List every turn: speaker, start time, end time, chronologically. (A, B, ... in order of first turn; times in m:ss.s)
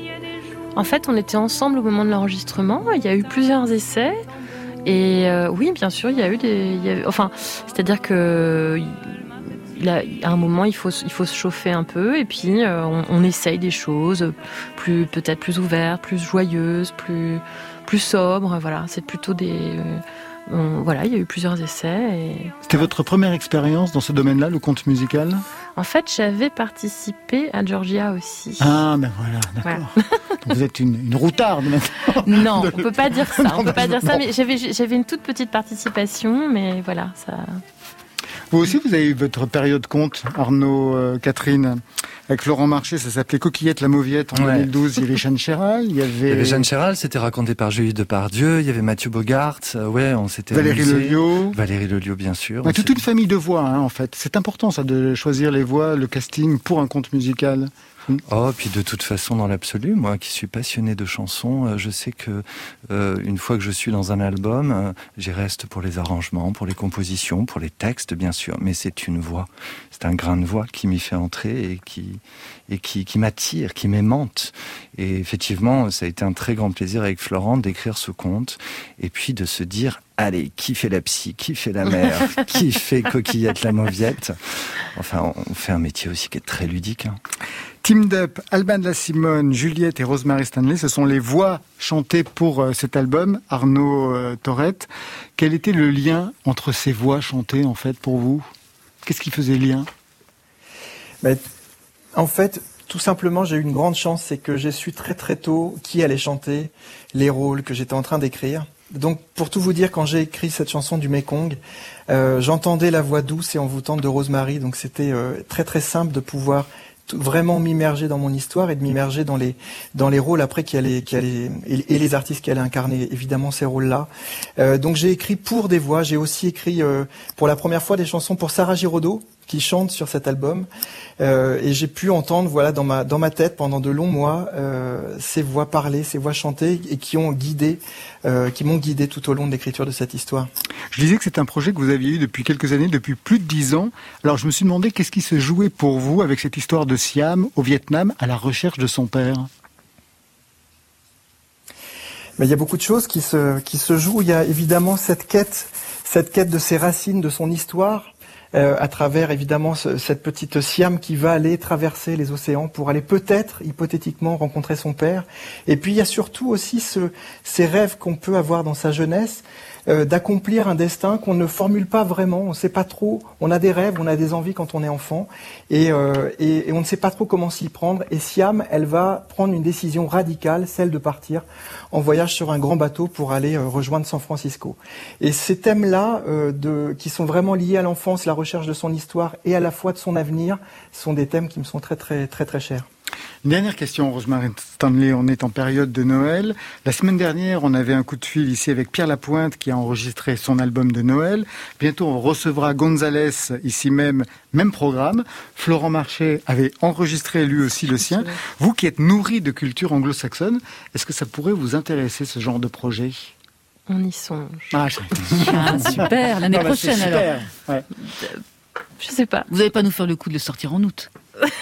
0:00.8-0:04.2 A
0:04.8-0:22.6 A
0:22.7-0:25.4 B
0:25.8-0:28.8 A
0:28.6-0:34.2 B
0:32.2-0:37.6 A
0:38.5-0:46.7 B
0:44.3-0:44.7 C
0:46.3-0:53.0 C
0:50.5-0:51.6 B
0:52.6-0:58.2 B
0:58.3-1:27.2 C
1:27.8-1:38.5 B
1:39.0-1:39.9 B
1:42.2-1:51.6 D
1:52.1-2:10.7 D
2:11.2-2:20.5 D
2:20.9-2:29.5 B
2:32.4-3:12.9 D
3:13.4-3:33.3 B
3:33.9-3:34.8 A
3:34.7-3:37.9 B
3:35.4-3:37.3 E
3:39.0-3:39.5 A
3:39.5-3:41.1 E